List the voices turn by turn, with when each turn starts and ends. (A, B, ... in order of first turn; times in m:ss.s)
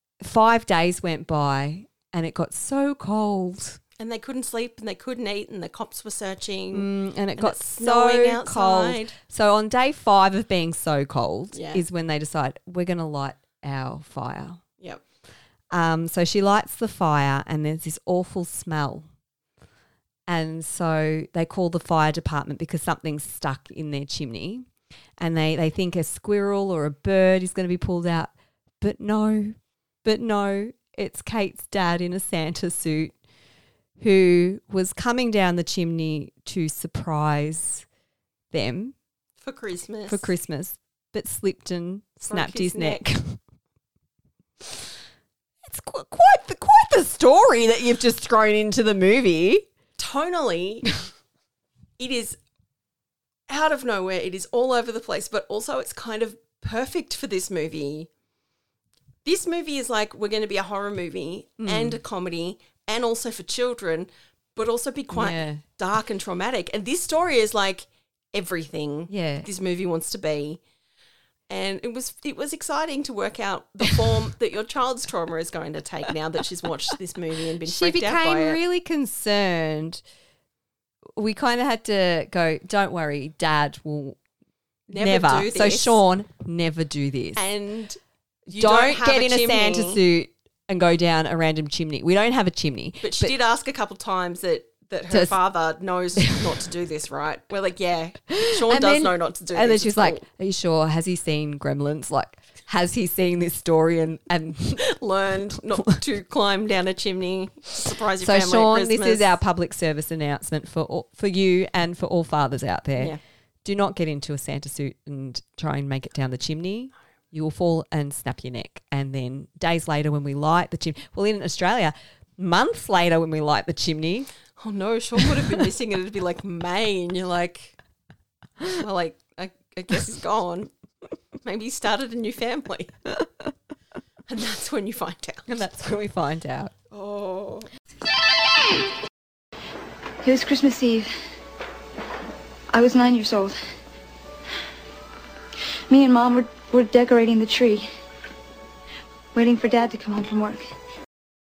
0:00.2-0:03.8 A
0:04.0-0:09.1 B
0:06.7-0:14.6 A
0:11.5-0:11.8 B
0:15.7-0:19.1 A
0:20.3-0:24.7 A
0:25.2-0:33.1 A
0:34.0-0:37.8 A
0:38.5-0:38.9 A
0:39.4-0:40.3 B
0:40.1-0:43.4 A
0:42.2-0:43.0 B
0:45.6-0:49.7 A
0:50.0-0:50.9 B
0:52.0-0:52.4 B
0:53.5-0:58.1 B
0:59.2-1:10.6 B
1:01.6-1:02.0 A
1:05.1-1:05.6 A
1:09.1-1:09.5 A
1:11.5-1:18.6 B
1:17.6-1:20.0 A
1:21.2-1:24.2 A
1:24.9-1:26.0 B
1:24.9-1:27.4 A
1:27.4-1:30.0 B
1:28.5-1:33.4 A
1:33.0-1:40.2 B
1:35.1-1:35.4 A
1:38.3-1:44.8 A
1:44.8-1:49.3 B
1:48.2-2:04.3 A
2:04.6-2:07.8 B
2:08.7-2:10.7 B
2:11.4-2:12.9 B
2:14.3-2:15.5 B
2:15.5-2:16.7 A
2:16.9-2:17.7 B
2:20.2-2:21.1 C
2:22.7-2:23.6 C
2:25.9-2:27.9 C
2:29.3-2:30.6 C